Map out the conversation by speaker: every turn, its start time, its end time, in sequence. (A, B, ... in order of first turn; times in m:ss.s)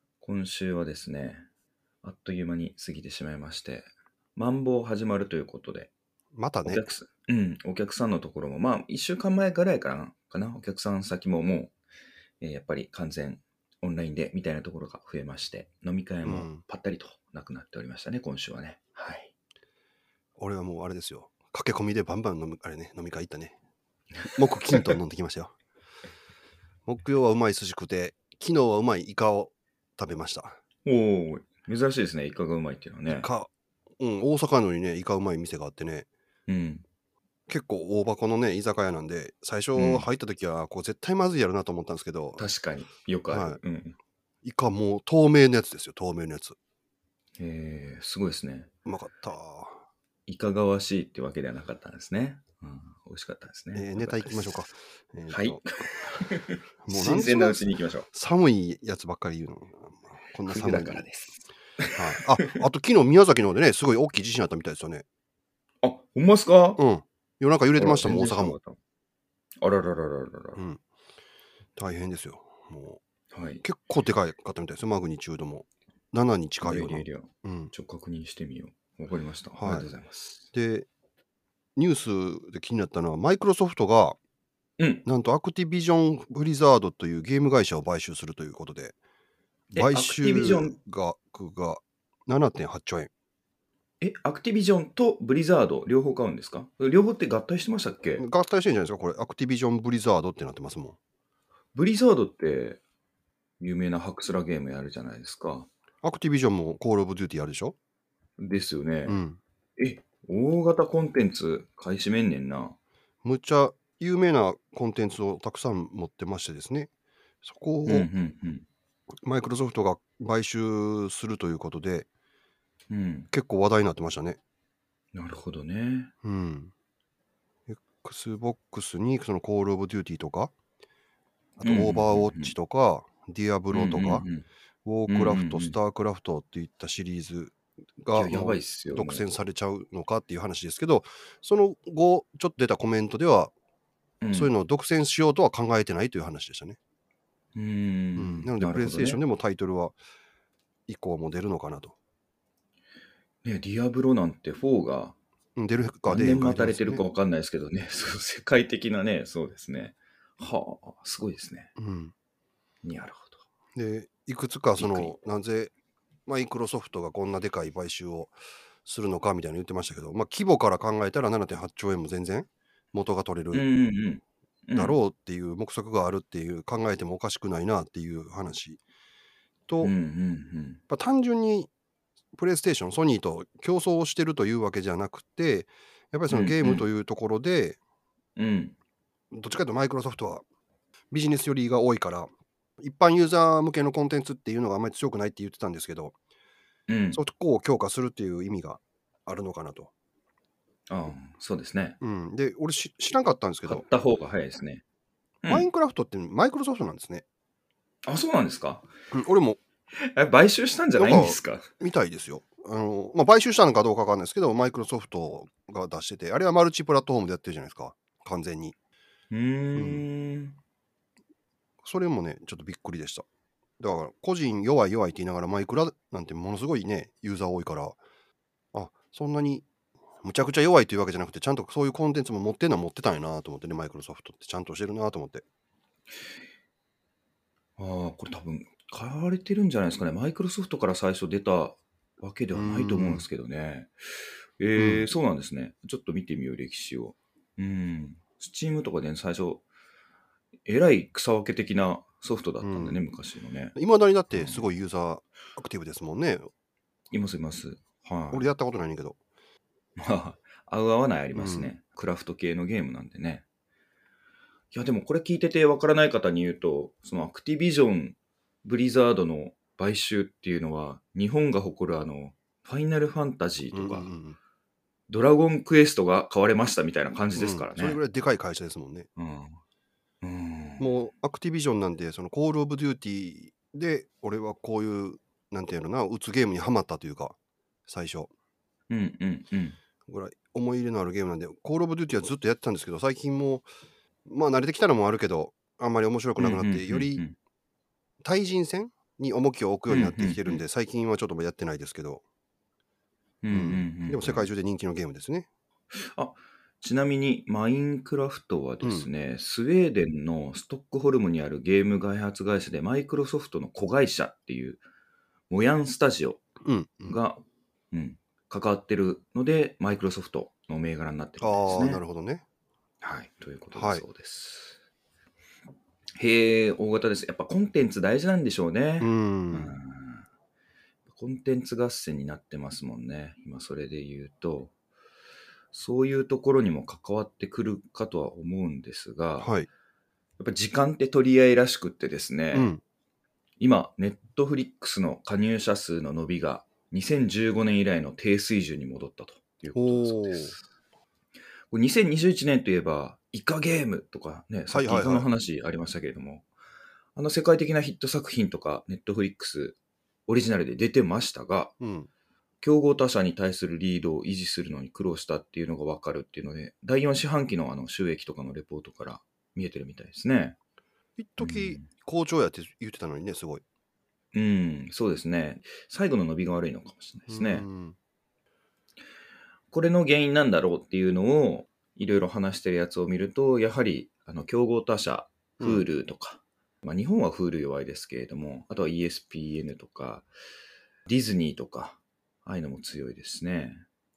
0:00.2-0:01.5 A
0:02.0-0:05.9 A
0:06.3-0:06.8 B
0:06.6-0:11.7 A
0:12.4-0:19.3 A
0:16.2-0:16.6 B
0:20.4-0:23.6 B
0:24.3-0:25.5 B
0:26.9-0:30.6 B
0:30.8-0:33.3 A
0:33.1-0:36.1 B
0:36.5-0:36.8 A
0:37.5-0:42.4 B
0:39.8-0:40.1 A
0:42.4-0:44.0 A
0:43.3-0:43.6 B
0:44.4-0:46.6 B
0:47.4-0:48.7 A
0:48.9-0:49.8 B
0:50.3-0:54.6 A
0:53.8-0:56.2 B
0:55.3-0:58.1 A
0:56.8-1:01.0 B
1:00.5-1:02.6 A
1:02.0-1:05.0 B
1:05.8-1:06.8 A
1:06.8-1:08.6 B
1:07.8-1:08.8 A
1:09.6-1:10.6 A
1:10.6-1:10.8 B
1:11.8-1:13.0 B
1:13.3-1:13.6 A
1:13.6-1:17.7 B
1:16.6-1:20.4 A
1:19.6-1:19.9 B
1:20.5-1:20.9 B
1:21.8-1:24.2 B
1:24.8-1:25.0 A
1:25.0-1:28.9 B
1:29.7-1:30.8 A
1:29.8-1:33.1 B
1:34.0-1:38.3 A
1:38.2-1:41.0 B
1:41.8-1:42.8 A
1:43.6-1:45.7 A
1:46.0-1:47.8 B
1:48.4-1:49.2 A
1:49.1-1:49.4 B
1:49.8-1:52.8 A
1:53.2-1:56.9 B
1:57.4-1:58.1 B
1:57.9-1:58.7 A
1:59.2-2:02.1 B
2:02.9-2:03.3 A
2:03.3-2:04.4 B
2:05.1-2:06.1 A
2:06.2-2:06.7 B
2:07.7-2:10.5 B
2:11.6-2:14.3 B
2:11.6-2:12.5 A
2:13.7-2:14.5 A
2:14.8-2:23.5 B
2:15.1-2:15.8 A
2:18.1-2:19.3 A
2:24.2-2:24.5 A
2:24.3-2:26.8 B
2:27.6-2:29.2 A
2:28.2-2:30.0 B
2:30.9-2:32.0 B
2:33.4-2:35.2 A
2:35.6-2:37.0 B
2:36.1-2:41.7 A
2:41.8-2:42.1 B
2:42.8-2:43.4 A
2:43.8-2:45.7 B
2:44.8-2:45.2 A
2:46.3-2:48.3 B
2:48.8-2:53.6 B
2:53.5-2:55.0 A
2:54.8-2:58.8 B
2:59.8-3:00.8 A
3:00.9-3:01.7 B
3:02.4-3:07.8 B
3:06.3-3:06.9 A
3:08.4-3:08.8 A
3:09.3-3:10.4 B
3:11.1-3:16.2 B
3:16.9-3:17.2 A
3:17.1-3:19.9 B
3:20.9-3:22.0 A
3:22.0-3:23.8 B
3:23.7-3:24.8 A
3:25.5-3:27.2 B
3:28.1-3:28.9 A
3:29.1-3:29.6 B
3:30.0-3:31.7 A
3:31.0-3:38.8 B
3:39.3-3:40.6 A
3:39.8-3:40.0 B
3:41.8-3:43.3 B
3:43.8-3:48.0 B
3:48.7-3:49.7 B
3:50.2-3:55.4 B
3:57.8-4:03.9 A
4:02.6-4:03.3 B
4:04.6-4:09.6 A
4:04.8-4:05.1 B
4:10.7-4:13.8 A
4:12.6-4:13.0 B
4:13.8-4:16.5 B
4:14.3-4:14.6 A
4:17.1-4:18.5 A
4:18.3-4:19.2 B
4:20.0-4:23.4 A
4:21.4-4:21.7 B
4:24.7-4:34.1 A
4:33.7-4:34.4 B
4:35.1-4:38.0 A
4:37.3-4:39.1 B
4:39.2-4:39.6 A
4:40.2-4:40.9 A
4:40.8-4:47.4 B
4:47.9-4:48.3 B
4:48.9-4:49.8 A
4:50.1-4:53.7 B
4:54.3-4:57.2 B
4:56.4-4:57.3 A
4:58.2-5:02.2 B
4:59.9-5:00.6 A
5:03.4-5:04.5 A
5:03.5-5:05.5 B
5:05.9-5:14.8 A
5:08.8-5:09.1 B
5:15.5-5:16.4 A
5:16.6-5:17.2 B
5:17.1-5:22.0 A
5:21.4-5:22.4 B
5:23.0-5:24.8 A
5:23.7-5:24.0 B
5:26.2-5:30.3 A
5:29.0-5:29.8 B
5:31.1-5:34.7 A
5:35.7-5:39.5 A
5:39.4-5:39.7 B
5:40.4-5:42.7 A
5:42.5-5:42.8 B
5:43.6-5:50.6 A
5:49.8-5:50.6 B
5:51.7-5:56.5 A
5:54.7-5:55.3 B
5:57.2-6:01.7 A
6:01.8-6:02.1 B
6:02.6-6:10.6 A
6:11.2-6:13.6 B
6:11.4-6:11.9 A
6:14.3-6:17.7 A
6:17.3-6:18.0 B
6:19.7-6:30.3 A
6:25.6-6:25.9 B
6:31.1-6:33.8 A